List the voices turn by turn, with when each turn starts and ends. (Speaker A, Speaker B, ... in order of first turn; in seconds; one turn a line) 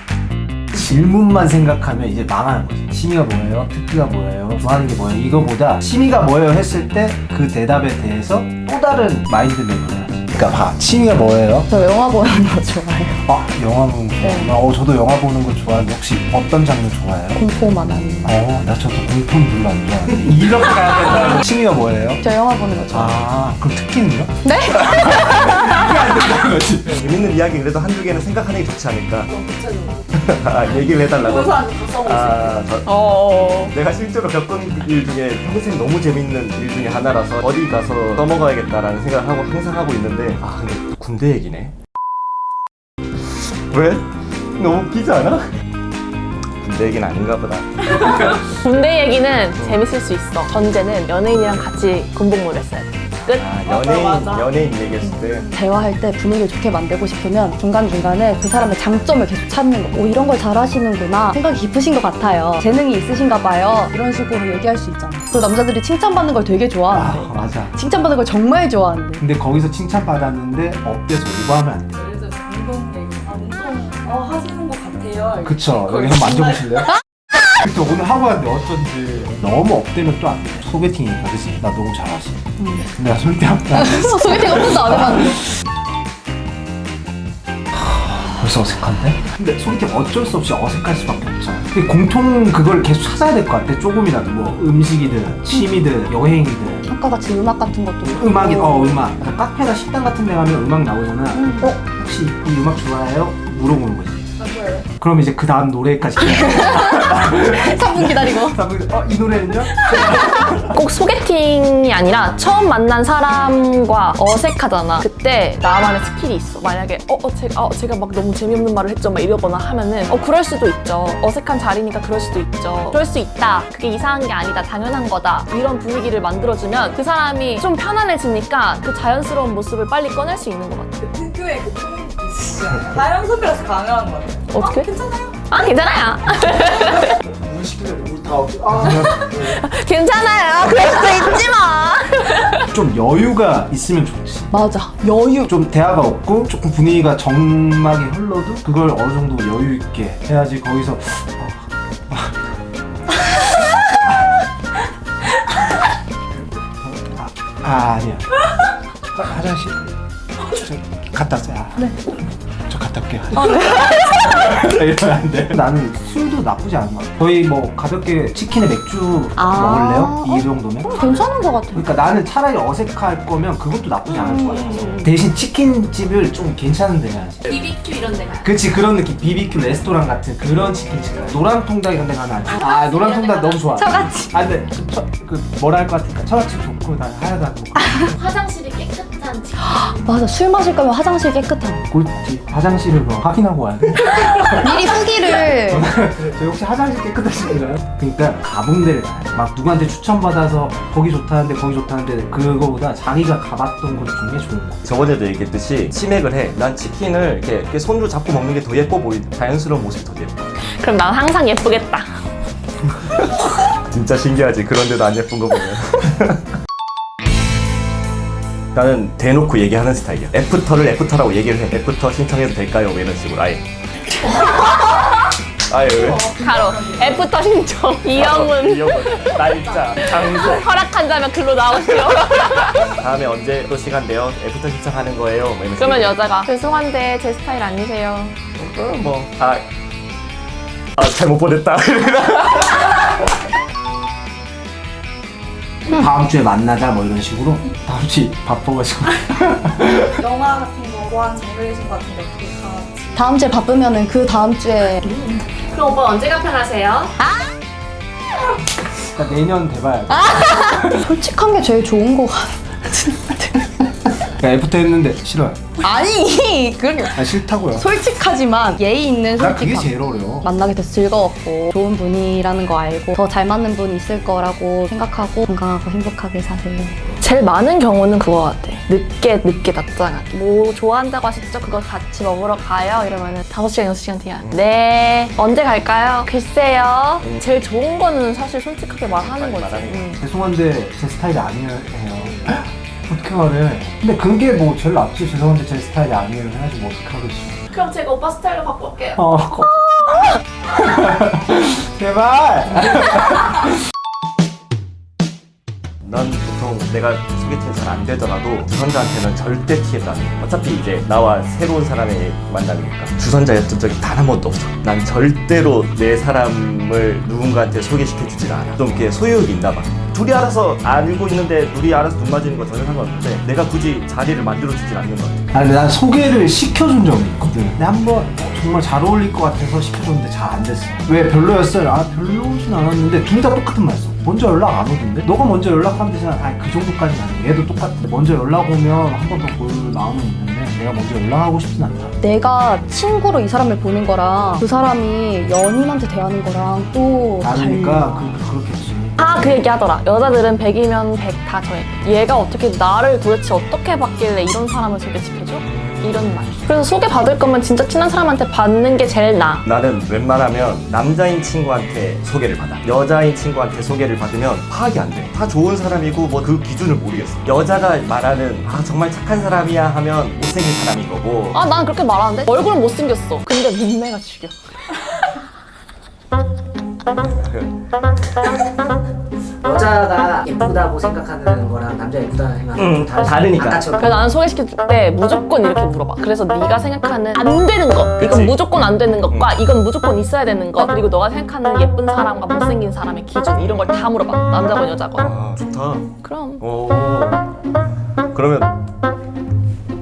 Speaker A: 0.7-11.7
Speaker B: 11.7-13.2
Speaker A: 13.2-17.4
Speaker B: 14.2-14.5
Speaker B: 17.4-18.3
Speaker A: 18.2-22.2
Speaker B: 22.2-23.2
Speaker A: 22.9-27.1
Speaker B: 24.4-25.8
Speaker C: 26.9-29.3
Speaker D: 29.3-30.1
Speaker C: 30.1-32.9
Speaker D: 30.9-32.6
Speaker E: 32.8-33.7
Speaker C: 33.7-41.7
Speaker C: 43.1-45.5
Speaker C: 46.6-48.5
Speaker E: 47.9-53.5
Speaker C: 49.6-49.9
Speaker C: 53.3-55.5
Speaker D: 53.6-54.5
Speaker B: 55.5-69.2
Speaker A: 66.9-67.7
Speaker A: 69.2-72.0
Speaker D: 71.9-76.6
Speaker A: 75.4-76.9
Speaker A: 77.5-85.5
Speaker B: 82.6-82.9
Speaker B: 83.7-85.4
Speaker A: 87.7-96.9
Speaker B: 96.9-99.0
Speaker A: 98.0-104.2
Speaker B: 101.3-101.8
Speaker D: 104.4-104.8
Speaker A: 105.0-110.8
Speaker B: 106.2-108.6
Speaker E: 110.1-131.1
Speaker D: 131.1-135.3
Speaker E: 134.5-137.2
Speaker A: 137.5-139.5
Speaker E: 138.9-142.7
Speaker A: 142.7-144.5
Speaker B: 144.5-145.5
Speaker A: 145.4-152.3
Speaker A: 156.8-158.4
Speaker A: 159.1-159.9
Speaker A: 160.4-161.9
Speaker A: 162.7-171.2
Speaker B: 163.3-164.6
Speaker B: 169.4-171.8
Speaker A: 171.7-177.4
Speaker E: 174.7-175.1
Speaker E: 177.4-178.5
Speaker A: 178.4-188.2
Speaker E: 182.5-183.7
Speaker B: 183.8-184.3
Speaker E: 188.1-189.8
Speaker B: 189.6-191.8
Speaker A: 191.9-194.9
Speaker B: 194.4-195.9
Speaker A: 195.6-204.8
Speaker C: 204.8-210.5
Speaker E: 210.7-212.1
Speaker C: 213.1-216.5
Speaker C: 218.7-223.7
Speaker C: 224.4-225.0
Speaker C: 225.7-226.3
Speaker E: 226.2-232.9
Speaker C: 228.1-230.7
Speaker C: 232.3-236.2
Speaker E: 235.8-238.4
Speaker C: 238.6-239.6
Speaker C: 241.0-243.3
Speaker A: 245.9-250.1
Speaker D: 250.2-253.2
Speaker B: 253.2-255.1
Speaker E: 255.0-257.2
Speaker B: 257.2-257.5
Speaker A: 259.0-261.1
Speaker B: 260.1-263.7
Speaker A: 264.3-265.7
Speaker B: 265.8-277.0
Speaker A: 267.1-267.9
Speaker A: 269.3-270.5
Speaker E: 277.2-290.2
Speaker C: 289.1-290.1
Speaker A: 290.2-297.6
Speaker E: 297.7-299.2
Speaker A: 299.1-303.7
Speaker C: 306.0-325.5
Speaker A: 325.5-342.1
Speaker B: 342.2-348.4
Speaker A: 347.4-349.4
Speaker E: 349.2-359.6
Speaker C: 359.6-371.6
Speaker E: 371.5-375.3
Speaker C: 377.2-377.7
Speaker F: 379.6-384.2
Speaker C: 382.7-383.9
Speaker E: 384.0-395.3
Speaker C: 388.2-388.6
Speaker C: 389.3-389.5
Speaker C: 395.2-397.5
Speaker E: 396.2-396.6
Speaker C: 398.3-398.8